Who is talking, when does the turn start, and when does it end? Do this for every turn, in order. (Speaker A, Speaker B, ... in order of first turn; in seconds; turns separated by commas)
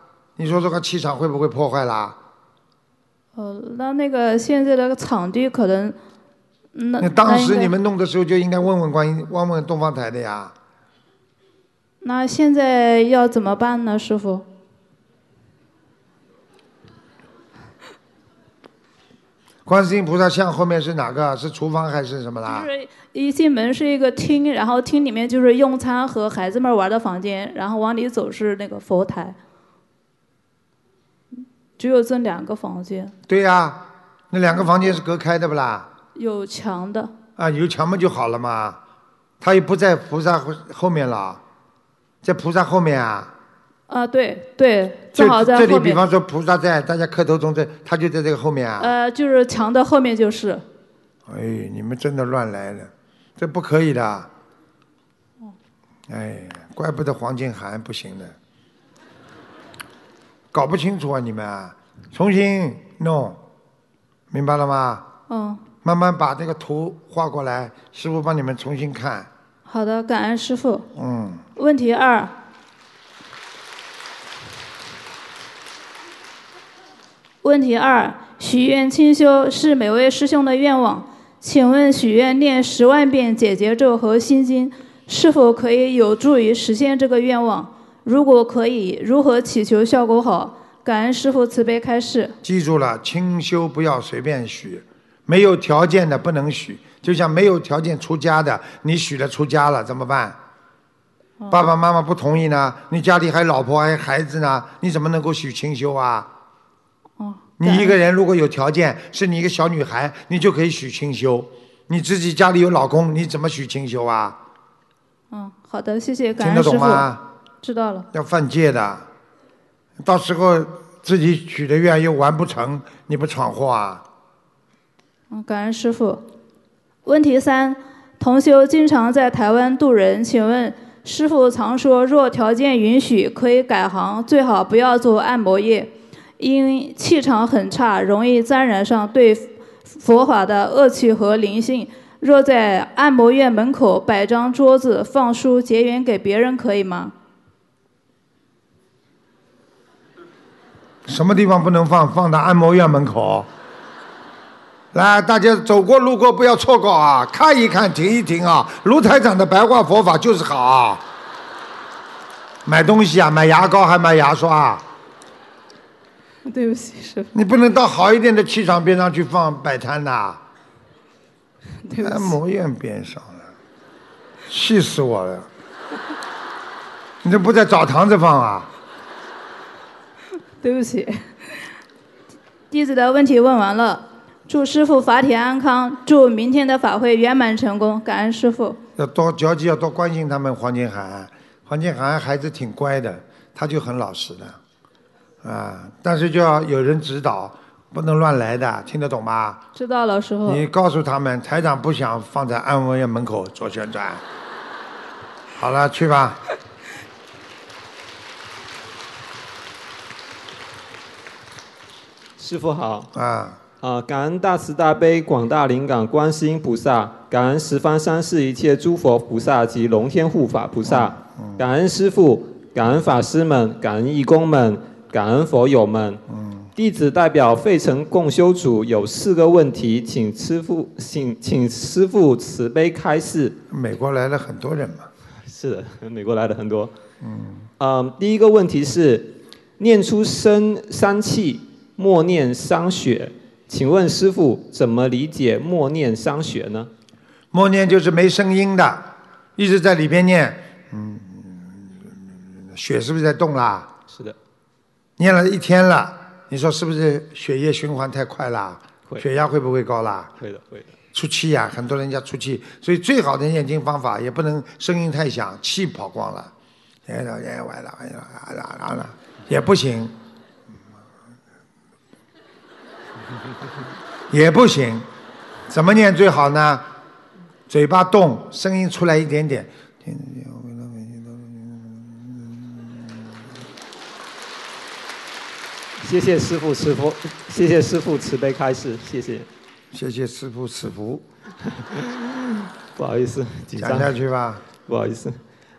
Speaker A: 0.4-2.2, Speaker B: 3.4-6.0, Speaker B: 6.8-7.7, Speaker A: 7.0-10.6, Speaker B: 12.0-14.4, Speaker A: 19.7-22.7, Speaker B: 22.5-29.4, Speaker B: 31.8-33.1, Speaker A: 33.3-35.9, Speaker B: 36.1-37.1, Speaker A: 37.4-38.8, Speaker A: 39.4-41.4, Speaker A: 42.2-43.3, Speaker B: 43.9-46.0, Speaker A: 45.1-48.9, Speaker B: 48.8-50.6, Speaker A: 51.3-54.3, Speaker A: 56.1-58.4, Speaker A: 60.5-63.4, Speaker A: 64.3-65.1, Speaker B: 65.3-65.6, Speaker A: 65.8-69.3, Speaker B: 69.7-70.9, Speaker A: 71.0-71.5, Speaker B: 71.6-72.3, Speaker B: 77.4-92.3, Speaker A: 92.4-100.4, Speaker B: 101.4-101.7, Speaker A: 101.5-106.3, Speaker B: 107.2-108.0, Speaker A: 107.6-114.4, Speaker B: 115.3-118.1, Speaker A: 116.4-117.2, Speaker A: 118.1-119.1, Speaker A: 120.0-124.0, Speaker B: 125.3-126.2, Speaker B: 127.0-147.1, Speaker A: 151.1-153.5, Speaker A: 154.9-161.0, Speaker A: 162.7-164.8, Speaker A: 167.3-170.4, Speaker A: 172.0-173.5, Speaker A: 174.5-175.5, Speaker A: 177.2-178.7, Speaker B: 180.6-181.3, Speaker B: 182.7-188.8, Speaker A: 189.0-194.6, Speaker A: 195.4-199.6, Speaker B: 199.8-200.7, Speaker A: 200.4-204.2, Speaker A: 205.6-206.4, Speaker C: 212.4-213.1, Speaker A: 213.1-213.6, Speaker C: 213.8-226.2, Speaker A: 220.9-221.6, Speaker A: 226.3-226.7, Speaker C: 226.8-233.6, Speaker A: 233.7-235.1, Speaker C: 235.4-236.9, Speaker A: 237.2-237.7, Speaker C: 237.8-246.9, Speaker A: 247.5-253.9, Speaker C: 254.1-254.4, Speaker A: 255.2-260.3, Speaker C: 260.4-260.9, Speaker A: 261.1-266.5, Speaker A: 267.1-270.2, Speaker A: 274.3-275.1, Speaker A: 275.7-276.9, Speaker A: 277.7-283.1, Speaker C: 286.0-289.5, Speaker A: 289.9-291.2, Speaker C: 293.0-294.2, Speaker A: 293.8-294.6, Speaker C: 294.9-295.4